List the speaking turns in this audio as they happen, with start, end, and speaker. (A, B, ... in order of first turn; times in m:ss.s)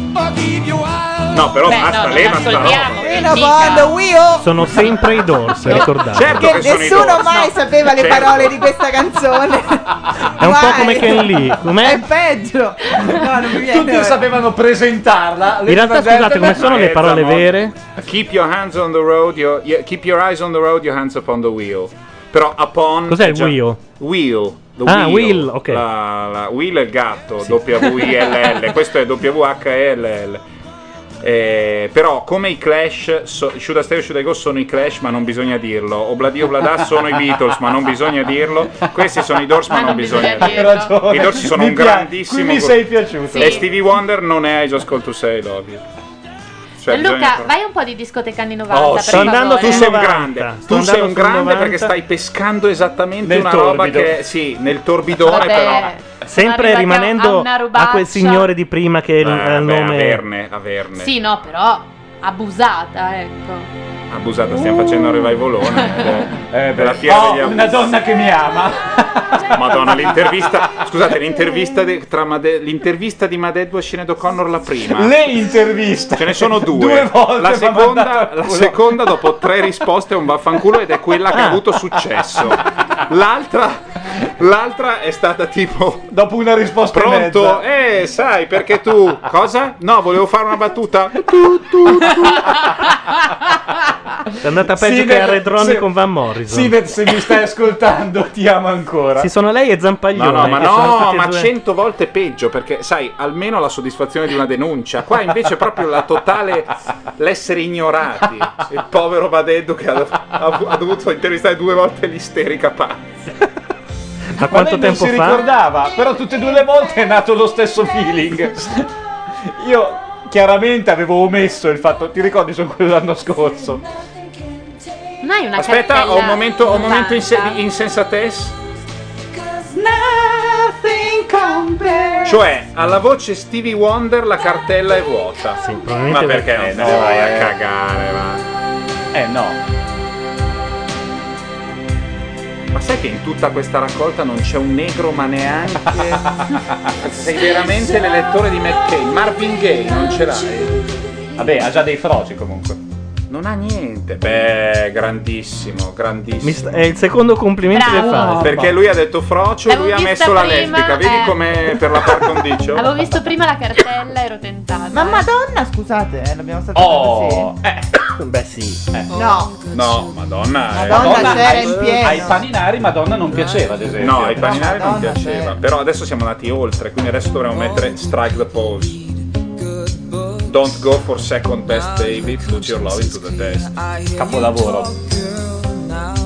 0:01.3-0:03.2 A
0:01.6-0:04.0 B
0:03.0-0:14.2 C
0:04.4-0:06.6 D
0:05.7-0:08.6 A
0:10.4-0:12.0 D
0:13.0-0:16.6 E
0:15.7-0:17.7 D
0:16.5-0:30.4 A
0:23.1-0:23.8 D
0:24.9-0:25.8 D
0:31.2-0:42.8 A
0:39.7-0:41.0 B
0:39.9-0:43.6 E
0:43.3-0:43.6 B
0:43.3-0:45.8 A
0:46.8-0:47.5 A
0:46.9-0:49.9 B
0:48.7-0:55.9 A
0:49.1-0:51.9 D
0:53.2-0:54.1 E
0:55.2-0:58.5 B
0:56.3-1:00.2 D
0:59.2-1:01.1 A
1:01.0-1:03.7 B
1:04.1-1:07.8 A
1:06.5-1:10.2 E
1:09.5-1:15.1 A
1:14.9-1:18.8 E
1:16.2-1:26.1 A
1:21.3-1:21.6 D
1:26.1-1:27.6 E
1:26.9-1:32.5 A
1:34.4-1:36.8 D
1:34.7-1:35.9 E
1:36.5-1:39.3 E
1:39.2-1:41.5 D
1:40.2-1:53.0 A
1:54.4-1:55.4 D
1:54.4-1:58.9 E
1:59.4-2:03.8 E
2:05.2-2:07.6 B
2:05.6-2:08.6 A
2:09.8-2:12.2 C
2:12.2-2:18.4 A
2:15.6-2:16.7 D
2:16.5-2:17.5 E
2:19.1-2:19.6 E
2:22.7-2:26.3 A
2:26.2-2:27.6 E
2:27.0-2:30.8 A
2:31.4-2:32.8 E
2:33.3-2:36.9 A
2:36.4-2:38.6 D
2:37.7-2:38.4 B
2:38.0-2:38.8 E
2:38.4-2:43.1 A
2:39.7-2:41.4 B
2:42.7-2:45.3 B
2:44.9-2:47.5 C
2:46.7-2:48.0 E
2:48.2-2:48.8 D
2:49.1-2:49.6 C
2:49.7-2:51.7 A
2:50.7-2:52.4 C
2:50.9-2:54.8 E
2:54.0-2:59.0 A
2:54.3-2:55.6 C
3:00.4-3:03.7 A
3:04.1-3:04.9 E